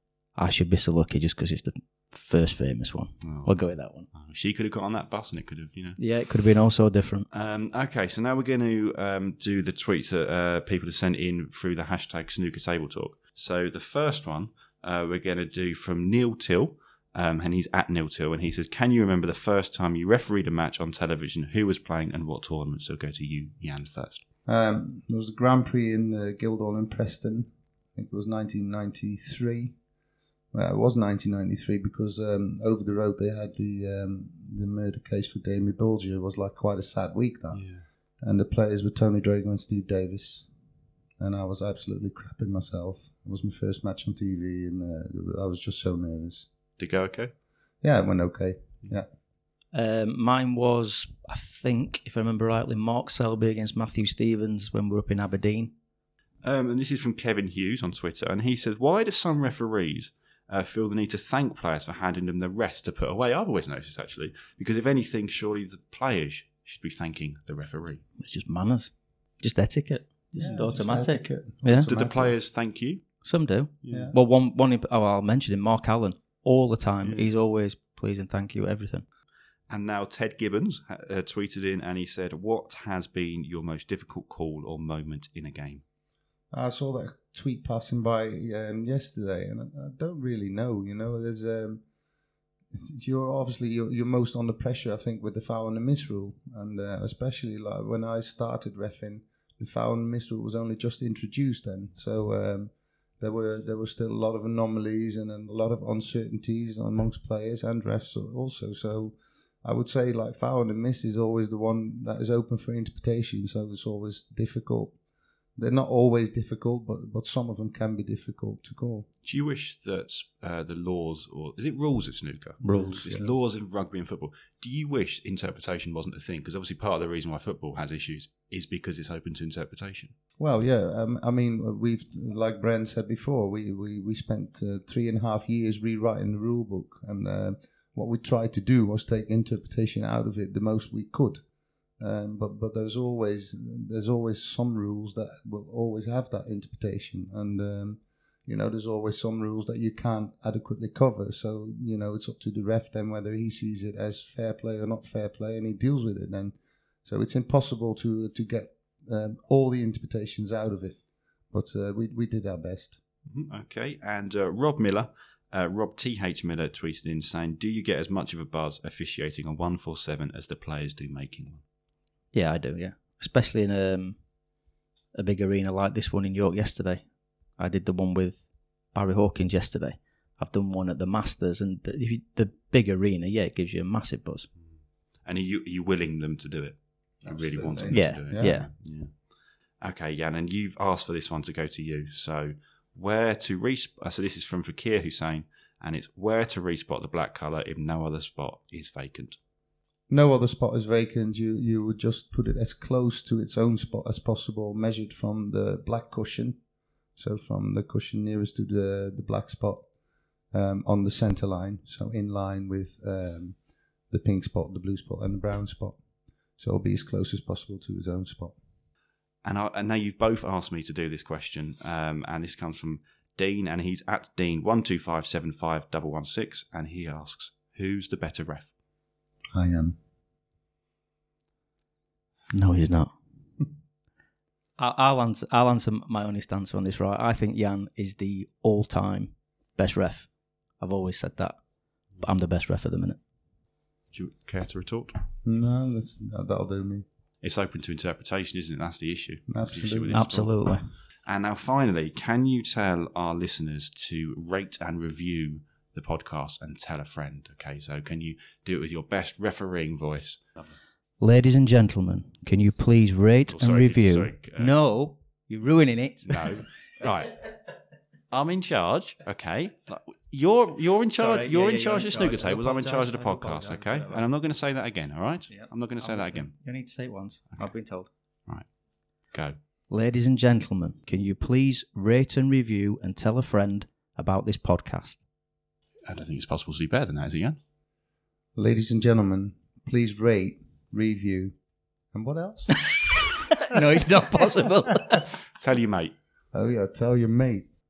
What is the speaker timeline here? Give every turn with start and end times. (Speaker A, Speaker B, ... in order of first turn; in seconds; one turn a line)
Speaker A: 0.3-4.1
Speaker B: 3.2-3.5
Speaker B: 4.1-6.0
Speaker A: 6.0-7.3
Speaker B: 7.3-24.2
Speaker C: 24.5-29.8
Speaker C: 30.5-37.6
Speaker B: 37.5-37.8
Speaker C: 38.2-40.5
Speaker C: 41.2-46.5
Speaker B: 46.8-47.3
Speaker C: 47.8-49.1
Speaker A: 49.7-55.7
Speaker B: 56.4-68.0
Speaker A: 68.2-71.9
Speaker C: 70.3-72.3
Speaker B: 71.8-73.0
Speaker A: 73.2-79.0
Speaker B: 73.8-74.1
Speaker C: 73.9-74.2
Speaker B: 77.0-77.3
Speaker B: 79.7-85.8
Speaker C: 86.5-91.8
Speaker C: 92.7-114.9
Speaker C: 115.5-119.1
Speaker B: 119.2-130.1
Speaker C: 122.6-123.3
Speaker C: 130.4-141.4
Speaker C: 142.0-161.0
Speaker C: 161.5-163.0
Speaker B: 163.3-171.6
Speaker A: 172.3-174.2
Speaker A: 175.1-184.5
Speaker B: 185.2-189.2
Speaker C: 187.2-188.5
Speaker A: 187.9-188.7
Speaker B: 189.8-199.4
Speaker C: 200.1-206.6
Speaker C: 207.2-209.8
Speaker C: 210.5-213.6
Speaker C: 214.1-216.0
Speaker C: 216.6-218.6
Speaker B: 219.4-228.7
Speaker C: 229.5-229.9
Speaker A: 232.5-233.1
Speaker A: 234.8-241.6
Speaker A: 242.2-243.2
Speaker B: 244.1-245.2
Speaker C: 245.4-247.0
Speaker B: 247.4-250.5
Speaker C: 249.5-250.2
Speaker A: 250.1-250.9
Speaker B: 251.2-260.8
Speaker A: 261.2-266.6
Speaker B: 263.5-264.7
Speaker B: 266.2-267.4
Speaker B: 268.3-276.5
Speaker A: 271.1-274.3
Speaker A: 275.5-278.1
Speaker B: 279.3-279.6
Speaker A: 279.9-285.2
Speaker B: 286.1-287.6
Speaker C: 288.6-291.6
Speaker C: 292.1-292.8
Speaker A: 293.6-295.2
Speaker B: 295.6-296.1
Speaker C: 296.5-297.7